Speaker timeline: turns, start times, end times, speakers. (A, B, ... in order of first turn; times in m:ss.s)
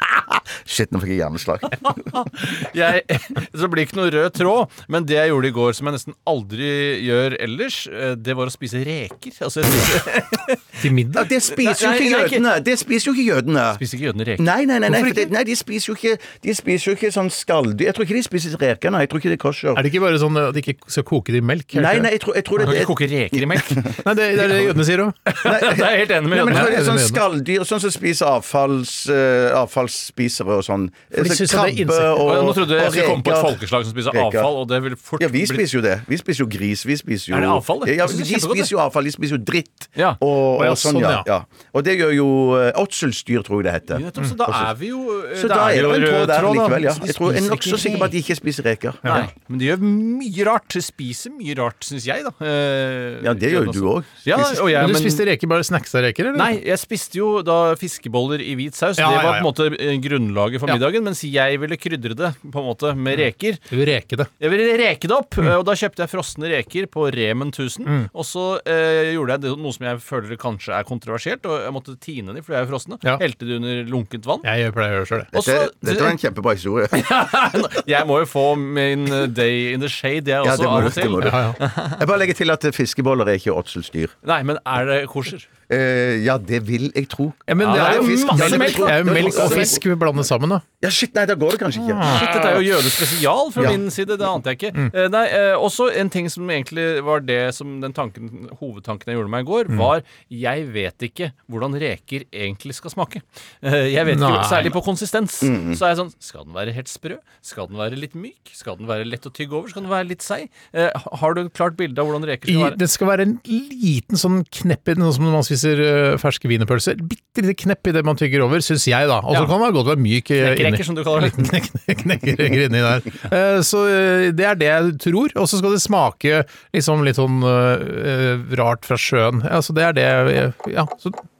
0:00.3-0:01.8 A
0:01.8-0:10.8 B
0:10.8-0:11.2 C
0:11.1-0:13.8 A
0:11.5-0:12.4 B
0:13.8-0:14.5 B
0:14.4-0:19.8 A
0:14.9-0:15.3 C
0:19.8-0:22.1 C
0:21.7-0:23.8 A
0:22.6-0:24.7 B
0:24.0-0:25.2 C
0:25.3-0:26.8 B
0:25.4-0:34.5 A
0:26.5-0:27.2 C
0:31.1-0:32.2 C
0:32.2-0:35.6 B
0:35.2-0:44.7 A
0:37.3-0:38.7 B
0:40.6-0:41.2 C
0:43.9-0:48.1 B
0:45.3-0:49.2 A
0:49.0-0:55.2 B
0:53.2-0:54.2 A
0:54.4-0:56.6 C
0:56.3-1:03.6 B
0:59.0-0:59.5 C
1:03.7-1:04.3 C
1:04.4-1:14.4 B
1:14.4-1:15.3 C
1:15.3-1:16.2 B
1:15.3-1:17.3 A
1:16.9-1:22.0 B
1:20.4-1:24.1 A
1:21.2-1:21.6 C
1:24.2-1:25.5 B
1:25.7-1:29.8 A
1:27.5-1:30.6 C
1:27.6-1:29.8 B
1:30.8-1:32.7 A
1:31.8-1:32.2 C
1:32.0-1:52.8 B
1:44.0-1:44.8 C
1:45.4-1:45.8 A
1:52.5-2:11.2 C
2:00.4-2:01.5 B